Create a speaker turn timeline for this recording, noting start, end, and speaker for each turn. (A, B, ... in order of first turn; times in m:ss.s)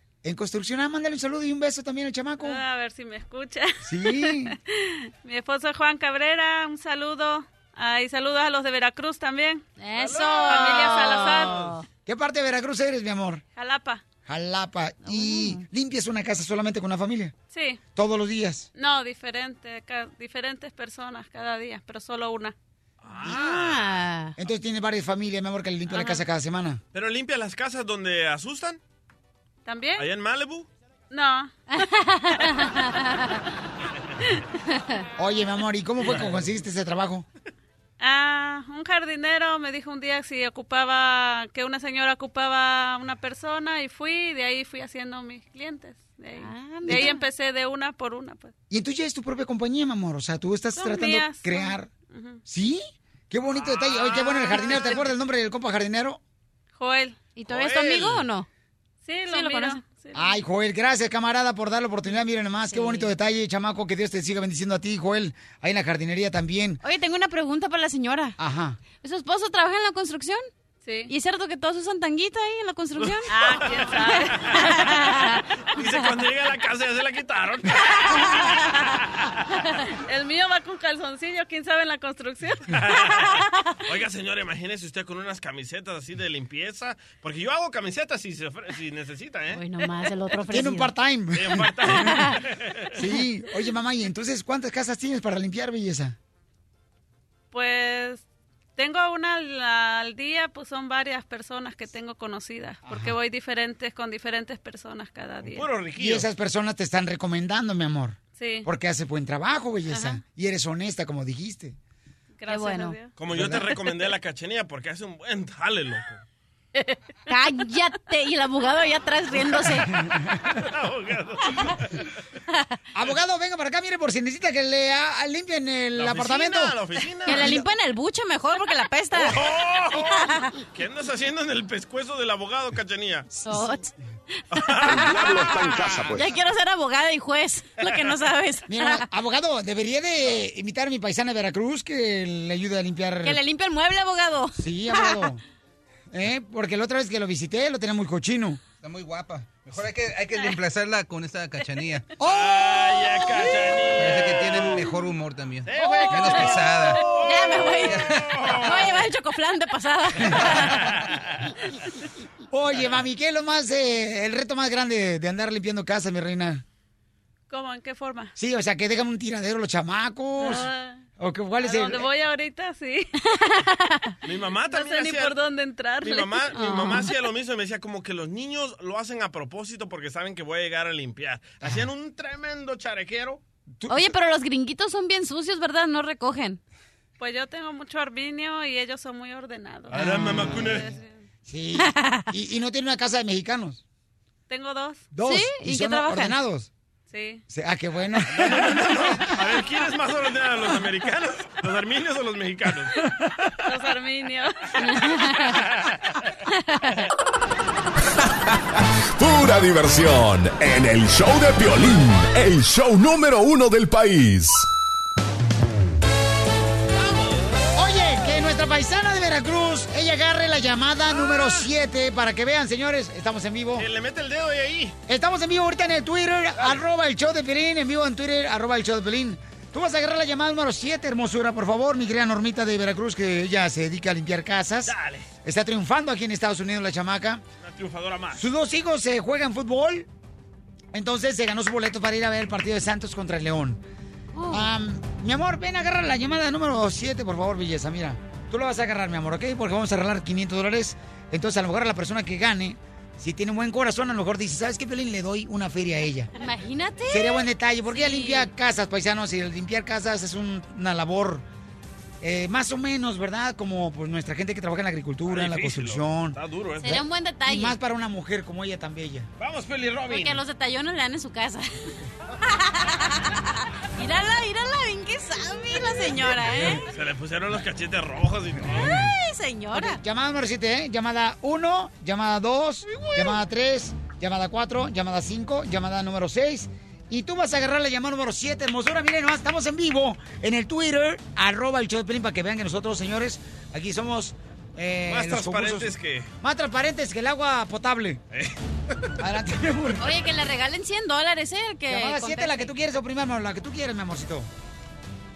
0:00.2-0:02.6 A
0:02.4-0:09.6 B
0:03.8-0:04.6 A
0:09.8-0:11.8 C
0:10.0-0:11.8 D
0:10.5-0:11.6 B
0:12.1-0:13.4 A
0:13.6-0:14.0 B
0:14.3-0:17.3 A
0:15.0-0:15.6 C
0:17.5-0:17.8 B
0:18.0-0:18.7 A
0:18.8-0:22.6 B
0:23.0-0:24.0 D
0:23.2-0:24.4 C
0:24.4-0:26.8 A
0:25.9-0:26.2 C
0:26.9-0:28.8 D
0:29.6-0:30.0 B
0:30.0-0:30.7 D
0:31.1-0:31.6 B
0:31.8-0:33.2 C
0:35.2-0:37.3 A
0:38.0-0:48.5 B
0:46.4-0:47.2 C
0:48.7-0:51.9 A
0:50.8-0:52.4 B
0:52.5-0:56.2 A
0:53.6-0:55.0 D
0:56.8-0:57.2 B
0:57.4-0:58.5 C
0:57.5-0:58.3 D
0:59.0-1:00.4 B
0:59.3-0:59.8 C
1:00.2-1:06.8 A
1:02.7-1:03.1 C
1:06.8-1:08.4 C
1:08.4-1:08.8 A
1:08.9-1:10.4 C
1:10.8-1:11.1 B
1:11.1-1:13.5 C
1:13.0-1:14.0 D
1:13.3-1:14.6 B
1:14.0-1:15.4 C
1:14.5-1:15.0 D
1:15.8-1:18.6 D
1:20.0-1:22.7 B
1:22.7-1:29.6 D
1:29.5-1:30.9 C
1:30.5-1:32.0 A
1:31.3-1:32.9 D
1:32.0-1:32.4 C
1:33.0-1:36.2 A
1:37.5-1:38.2 B
1:38.8-1:45.7 B
1:42.9-1:43.2 A
1:45.4-1:46.3 D
1:46.0-1:51.8 A
1:48.4-1:48.7 B
1:52.4-1:53.1 B
1:52.5-1:53.0 C
1:53.2-1:56.2 D
1:53.3-1:53.6 A
1:57.3-1:59.9 C
2:00.5-2:01.9 D
2:02.9-2:06.8 A
2:06.0-2:07.6 D
2:07.3-2:10.5 C
2:07.3-2:07.6 A
2:09.2-2:13.3 D
2:13.4-2:13.9 C
2:13.5-2:13.7 A
2:14.5-2:16.2 D
2:14.6-2:19.1 C
2:18.7-2:23.4 A
2:23.2-2:25.3 C
2:24.6-2:25.4 A
2:26.1-2:28.6 A
2:28.8-2:32.1 E
2:32.2-2:34.8 D
2:32.2-2:32.5 A
2:34.0-2:37.0 E
2:35.7-2:39.0 D
2:37.1-2:40.9 C
2:37.9-2:38.2 E
2:42.5-2:46.6 A
2:47.5-2:48.3 B
2:48.4-2:52.1 A
2:50.4-2:51.0 B
2:51.6-2:53.1 B
2:53.4-2:54.1 C
2:54.2-2:55.4 D
2:54.7-2:56.5 B
2:56.0-3:03.4 D
2:56.5-2:57.1 C
3:01.6-3:01.9 A
3:03.8-3:04.1 A
3:03.9-3:06.6 C
3:07.2-3:11.2 B
3:09.9-3:10.9 D
3:10.0-3:10.8 A
3:11.5-3:13.8 A
3:11.8-3:12.3 C
3:14.5-3:15.1 B
3:15.1-3:16.7 A
3:15.2-3:16.4 C
3:17.1-3:17.4 B
3:17.5-3:19.0 A
3:18.3-3:23.0 D
3:23.7-3:24.6 B
3:24.9-3:25.4 C
3:29.2-3:34.7 F
3:37.8-3:43.9 A
3:41.3-3:41.6 D
3:43.8-3:45.0 D
3:45.1-3:57.4 A
3:54.9-3:55.3 D
3:57.6-3:58.5 D
3:58.3-4:00.1 A
4:00.9-4:03.8 A
4:04.3-4:04.7 C
4:04.5-4:16.3 A
4:16.4-4:18.5 C
4:17.1-4:21.4 A
4:22.2-4:29.3 A
4:25.3-4:27.0 D
4:26.8-4:27.8 C
4:29.4-4:30.4 D
4:30.1-4:31.7 C
4:32.5-4:33.0 C
4:34.0-4:36.9 C
4:36.9-4:39.0 D
4:38.9-4:40.0 C
4:39.7-4:58.2 A
4:42.9-4:43.4 D
4:55.1-4:56.3 D
4:59.2-5:00.1 A
5:00.0-5:02.7 C
5:01.9-5:04.5 A